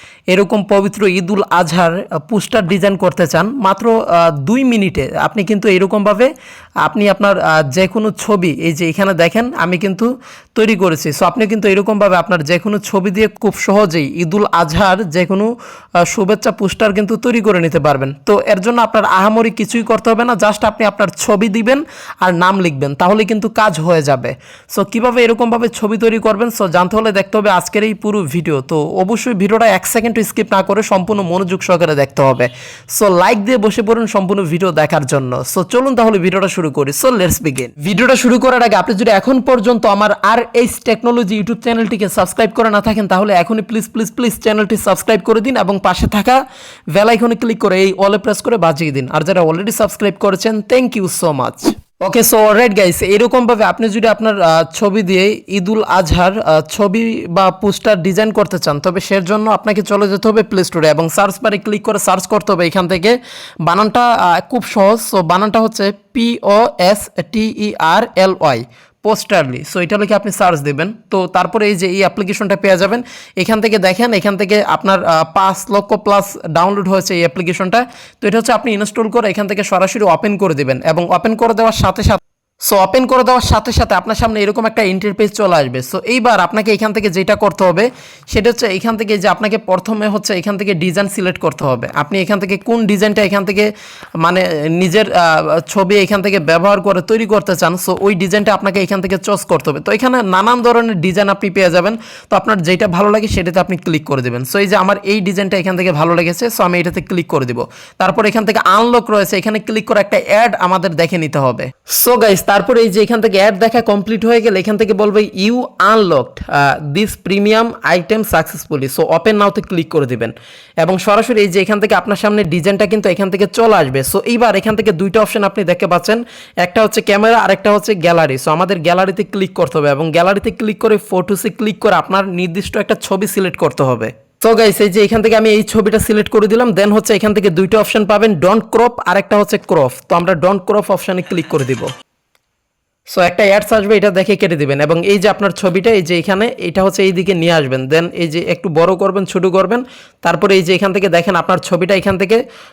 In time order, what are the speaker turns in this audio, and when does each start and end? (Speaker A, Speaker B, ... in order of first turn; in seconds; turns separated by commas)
Speaker A: 0.3-6.3, Speaker A: 6.8-15.5, Speaker A: 16.0-46.4, Speaker A: 47.0-141.9, Speaker A: 143.1-152.4